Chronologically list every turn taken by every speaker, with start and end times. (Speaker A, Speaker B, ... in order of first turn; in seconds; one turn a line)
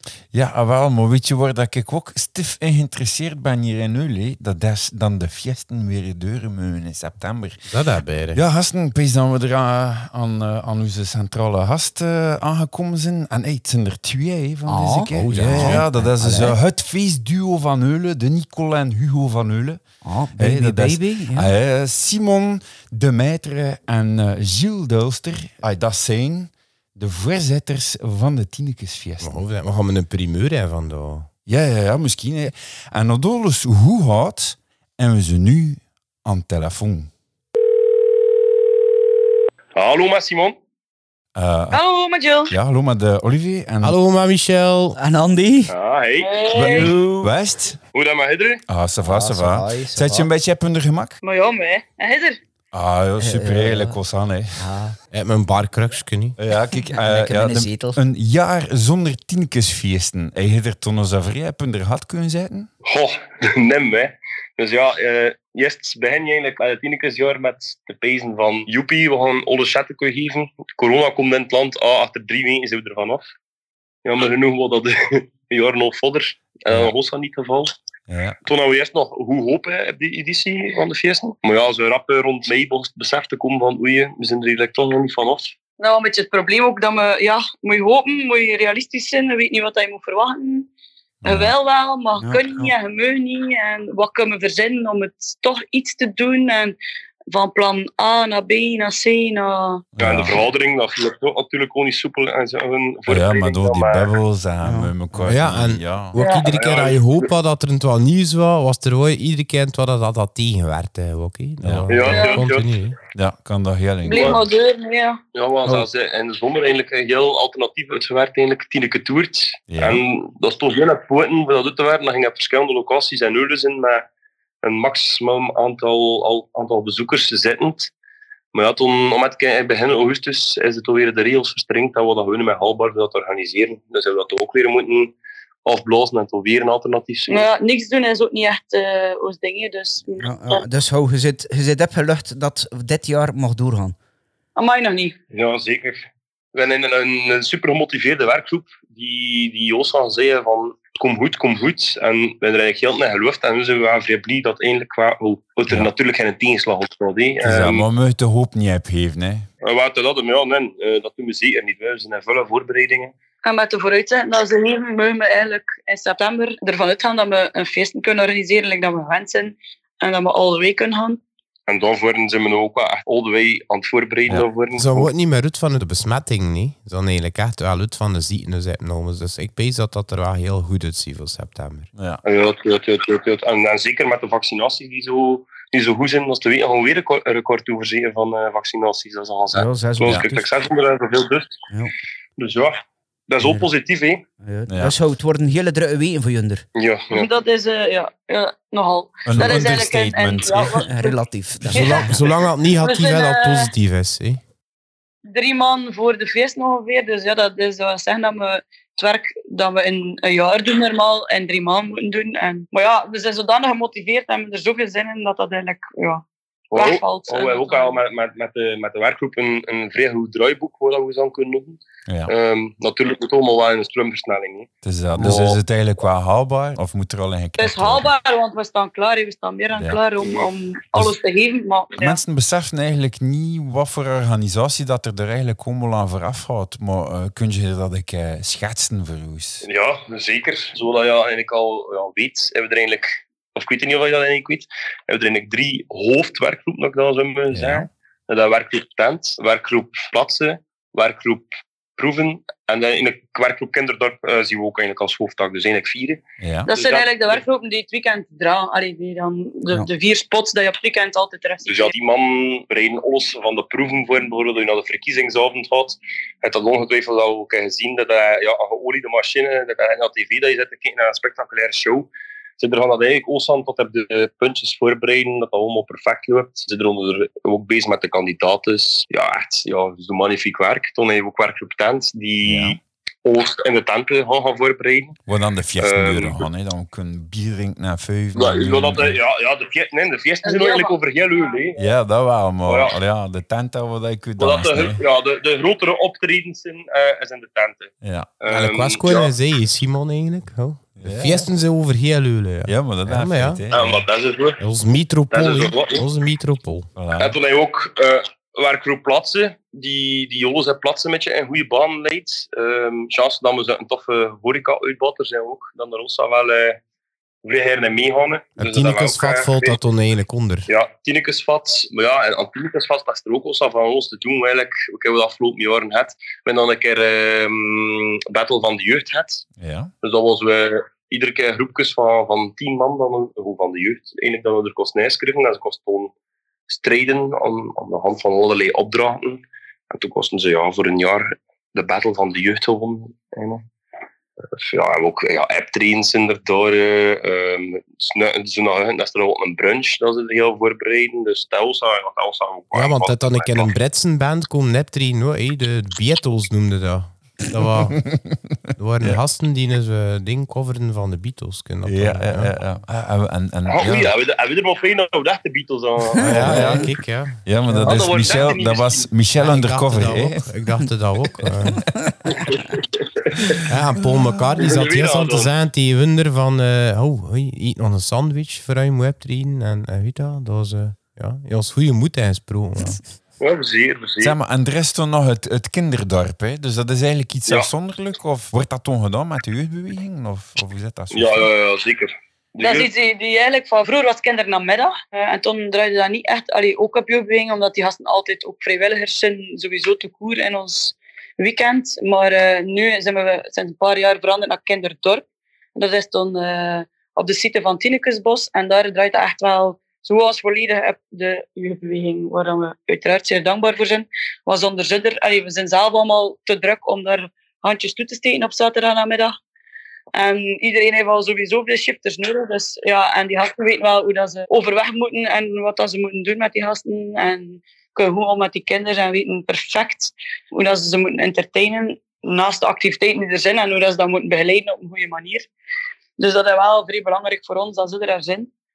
Speaker A: 0.3-7.6
Speaker B: 7.7-8.4
Speaker A: 8.3-19.8
Speaker C: 14.7-16.6
Speaker B: 15.2-15.9
Speaker C: 20.0-21.5
Speaker A: 20.4-29.4
Speaker B: 29.2-31.3
Speaker A: 31.5-37.1
Speaker D: 39.8-40.6
Speaker A: 41.4-41.8
Speaker E: 41.7-42.5
Speaker A: 42.5-44.0
Speaker B: 43.8-45.0
Speaker C: 45.0-45.7
Speaker D: 45.7-46.9
Speaker E: 46.2-46.9
Speaker A: 46.5-47.8
Speaker C: 46.7-47.3
Speaker D: 47.9-48.6
Speaker A: 48.7-51.2
Speaker C: 49.0-50.3
Speaker E: 51.2-52.4
Speaker A: 52.7-54.6
Speaker C: 53.2-54.0
Speaker C: 54.6-55.0
Speaker B: 55.1-56.4
Speaker A: 56.4-62.7
Speaker C: 56.9-58.0
Speaker D: 62.9-73.2
Speaker D: 74.0-77.7
Speaker A: 78.1-78.4
Speaker D: 78.5-85.5
Speaker E: 85.8-90.7
Speaker A: 91.2-91.5
Speaker E: 91.3-96.8
Speaker C: 92.2-92.7
Speaker E: 97.3-99.8
Speaker A: 100.0-100.4
Speaker D: 100.0-104.1
Speaker A: 103.1-106.2
Speaker C: 104.6-105.4
Speaker B: 105.3-113.0
Speaker E: 106.2-106.5
Speaker D: 106.5-107.2
Speaker A: 111.6-111.9
Speaker D: 111.9-112.7
Speaker E: 112.0-112.4
Speaker A: 113.1-114.4
Speaker E: 114.0-115.2
Speaker D: 114.1-114.4
Speaker D: 115.3-124.1
Speaker A: 119.7-120.0
Speaker D: 124.6-127.9
Speaker D: 128.5-135.1
Speaker D: 135.7-137.5
Speaker E: 137.3-140.7
Speaker C: 140.2-143.9
Speaker E: 144.6-145.2
Speaker D: 145.3-157.8
Speaker A: 157.4-159.5
Speaker D: 159.6-163.1
Speaker E: 163.4-171.2
Speaker D: 171.7-175.1
Speaker B: 174.8-181.9
Speaker A: 181.9-182.2
Speaker D: 182.3-191.5
Speaker C: 189.5-190.5
Speaker D: 192.4-192.8
Speaker D: 193.3-194.2
Speaker C: 193.4-193.7
Speaker C: 194.4-196.7
Speaker A: 194.7-195.0
Speaker D: 196.8-197.3
Speaker E: 197.1-201.2
Speaker A: 199.3-200.9
Speaker C: 200.9-202.2
Speaker B: 201.7-204.4
Speaker E: 201.7-202.2
Speaker E: 202.8-203.7
Speaker E: 205.3-218.0
Speaker D: 216.7-225.6
Speaker A: 222.1-222.3
Speaker A: 224.8-228.1
Speaker E: 227.6-232.2
Speaker A: 229.8-230.0
Speaker A: 232.0-239.7
Speaker D: 239.6-257.4
Speaker A: 247.5-247.9
Speaker A: 256.4-256.7
Speaker E: 256.7-261.9
Speaker D: 261.7-285.2
Speaker A: 282.4-282.8
Speaker A: 285.3-289.2
Speaker D: 285.8-286.4
Speaker D: 288.4-291.8
Speaker E: 290.4-290.9
Speaker A: 291.8-295.0
Speaker D: 292.7-292.9
Speaker D: 294.4-299.3
Speaker A: 298.0-298.3
Speaker B: 298.5-303.6
Speaker A: 301.0-301.5
Speaker A: 302.7-304.1
Speaker D: 303.7-304.6
Speaker B: 304.6-306.9
Speaker D: 305.3-306.1
Speaker A: 307.0-307.4
Speaker D: 307.2-316.8
Speaker D: 317.4-319.8
Speaker B: 318.6-320.7
Speaker D: 320.7-329.4
Speaker A: 329.6-329.9
Speaker D: 330.0-336.1
Speaker D: 336.7-343.7
Speaker D: 344.6-353.7
Speaker B: 352.7-358.0
Speaker A: 358.1-359.2
Speaker B: 358.8-362.5
Speaker A: 361.8-364.1
Speaker D: 363.7-366.8
Speaker B: 366.2-367.4
Speaker A: 366.2-366.9
Speaker C: 366.3-366.8
Speaker A: 367.4-370.5
Speaker C: 367.7-368.0
Speaker D: 367.8-369.1
Speaker B: 369.4-371.8
Speaker A: 371.6-371.9
Speaker D: 372.3-373.6
Speaker B: 373.6-383.0
Speaker D: 374.6-375.5
Speaker D: 383.4-384.4
Speaker A: 384.2-391.5
Speaker D: 391.1-392.9
Speaker E: 392.6-405.2
Speaker E: 405.8-419.3
Speaker E: 420.1-435.5
Speaker E: 436.2-438.5